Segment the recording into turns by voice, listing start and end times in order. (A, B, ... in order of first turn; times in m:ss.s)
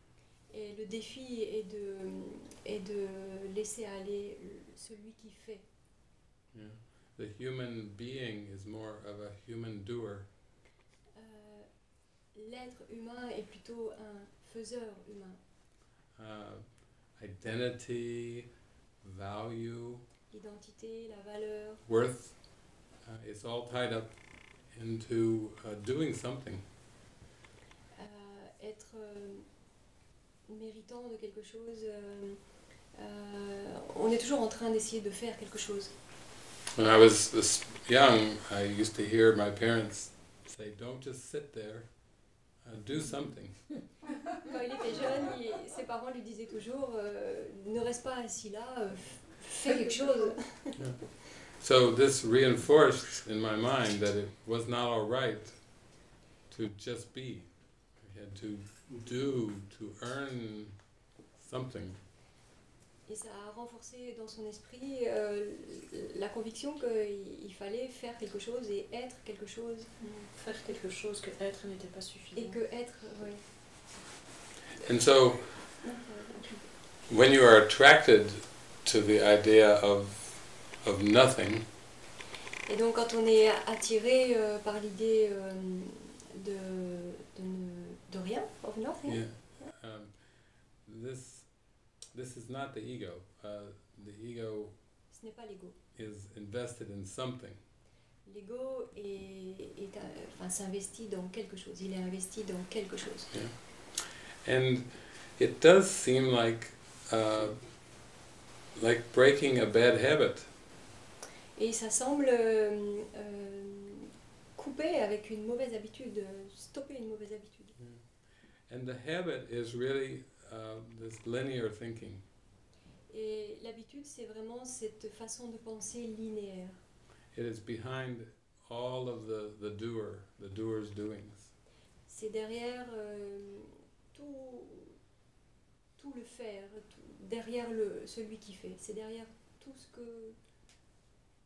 0:00.5-0:05.6 A
0:06.5-0:10.3 B
0:11.1-0:11.8 A
0:12.3-0:15.4 A
0:16.1-0:18.5 B
0:19.0-0:20.0 B
0:20.3-0:21.8 A
0:21.9-0:26.6 B
0:28.0-0:29.5 A
0:30.5-0:32.4 A
0:32.9-0:35.9 A
0:36.8-0:43.9 B
0:44.4-0:50.9 A
0:49.7-0:50.0 C
0:50.7-1:02.0 B
1:03.0-1:10.3 A
1:10.0-1:12.6 C
1:12.3-1:13.4 A
1:14.8-1:15.7 B
1:15.5-1:16.7 A
1:17.1-1:21.7 B
1:22.7-1:29.7 A
1:29.0-1:34.8 B
1:35.1-1:35.8 A
1:35.9-1:37.6 B
1:38.2-1:43.3 A
1:43.3-1:48.1 B
1:48.7-1:50.5 B
1:51.5-1:57.8 A
1:57.8-2:02.2 B
2:03.1-2:06.8 A
2:07.3-2:11.5 B
2:12.1-2:15.0 A
2:16.0-2:20.4 A